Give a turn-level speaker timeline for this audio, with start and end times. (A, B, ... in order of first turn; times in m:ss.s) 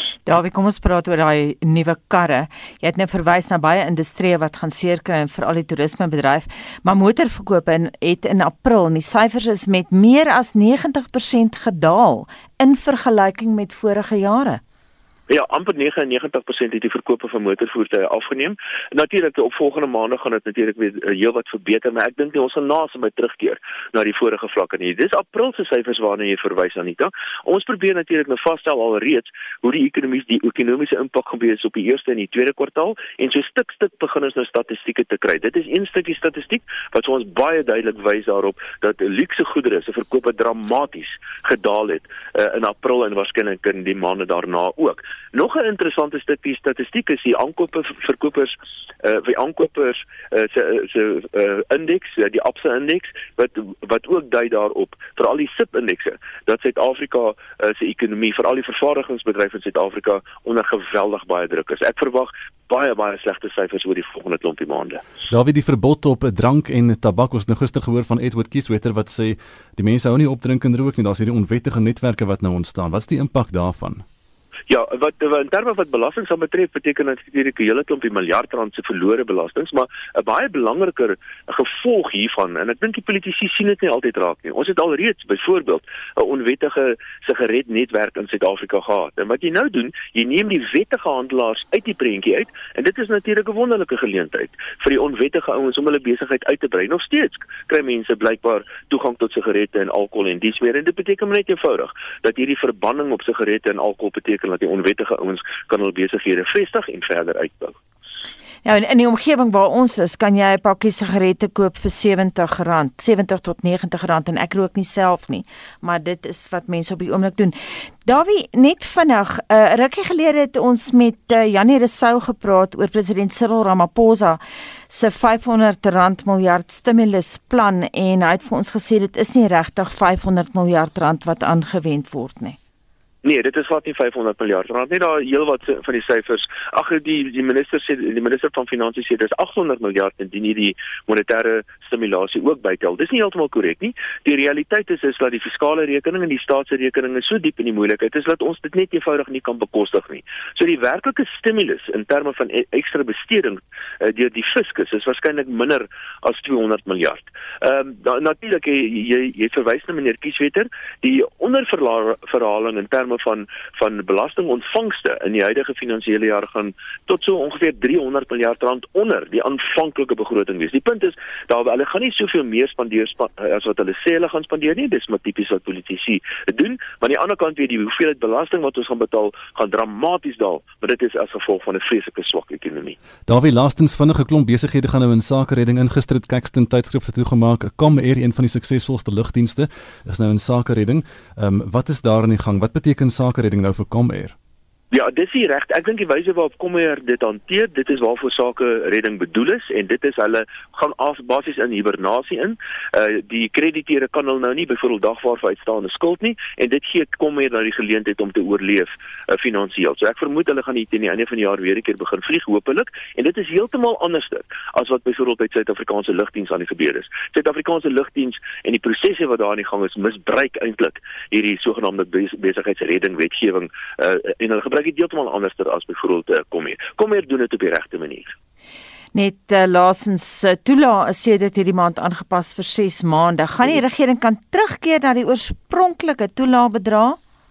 0:00.2-0:14.6 A
0:15.3-1:05.0 B
1:05.3-1:14.0 C
1:14.7-1:47.8 B
1:48.6-2:12.6 A
2:13.2-3:03.0 B
3:03.3-3:14.3 C
3:14.9-3:48.3 B
3:49.1-3:57.2 A